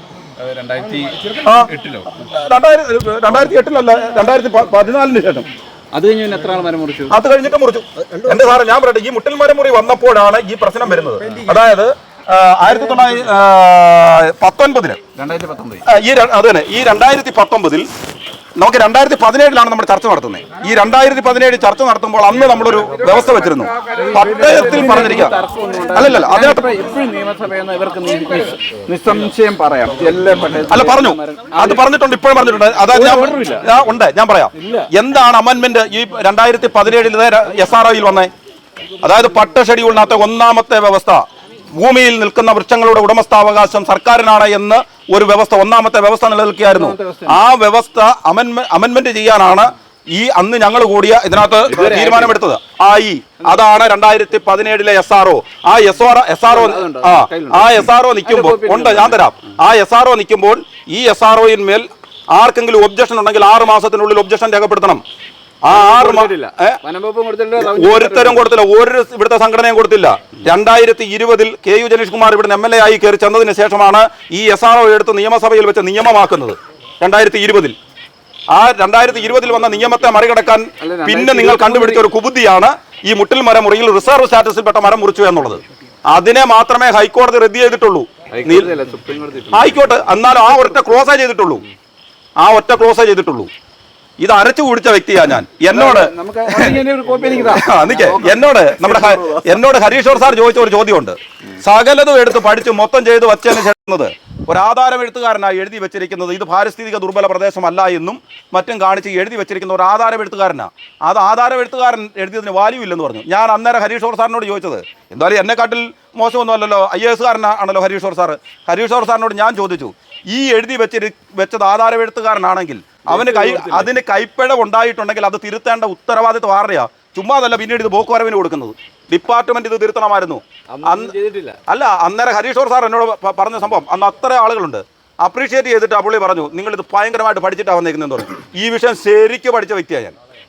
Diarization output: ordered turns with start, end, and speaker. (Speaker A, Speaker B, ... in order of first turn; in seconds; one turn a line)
Speaker A: 0.4-2.2
Speaker B: 1.4-5.5
Speaker A: 3.3-3.6
Speaker A: 5.9-7.2
Speaker B: 7.1-15.0
Speaker A: 8.0-8.6
Speaker A: 11.0-11.7
Speaker A: 12.7-13.3
Speaker A: 15.2-15.8
Speaker B: 15.8-17.9
Speaker B: 18.6-25.4
Speaker A: 22.6-31.9
Speaker B: 25.9-26.7
Speaker B: 30.7-38.3
Speaker A: 32.9-33.7
Speaker A: 34.6-34.9
Speaker B: 39.0-41.2
Speaker B: 41.8-65.0
Speaker A: 46.6-47.4
Speaker A: 51.6-52.4
Speaker A: 56.4-59.3
Speaker B: 65.6-66.8
Speaker A: 65.7-68.5
Speaker B: 67.6-77.8
Speaker B: 78.5-88.7
Speaker A: 80.8-82.1
Speaker A: 88.3-91.0
Speaker B: 89.5-91.6
Speaker B: 92.4-93.5
Speaker B: 94.2-96.8
Speaker A: 95.7-100.0
Speaker B: 97.3-131.1
Speaker A: 123.1-123.9
Speaker A: 130.7-131.6
Speaker B: 131.7-140.2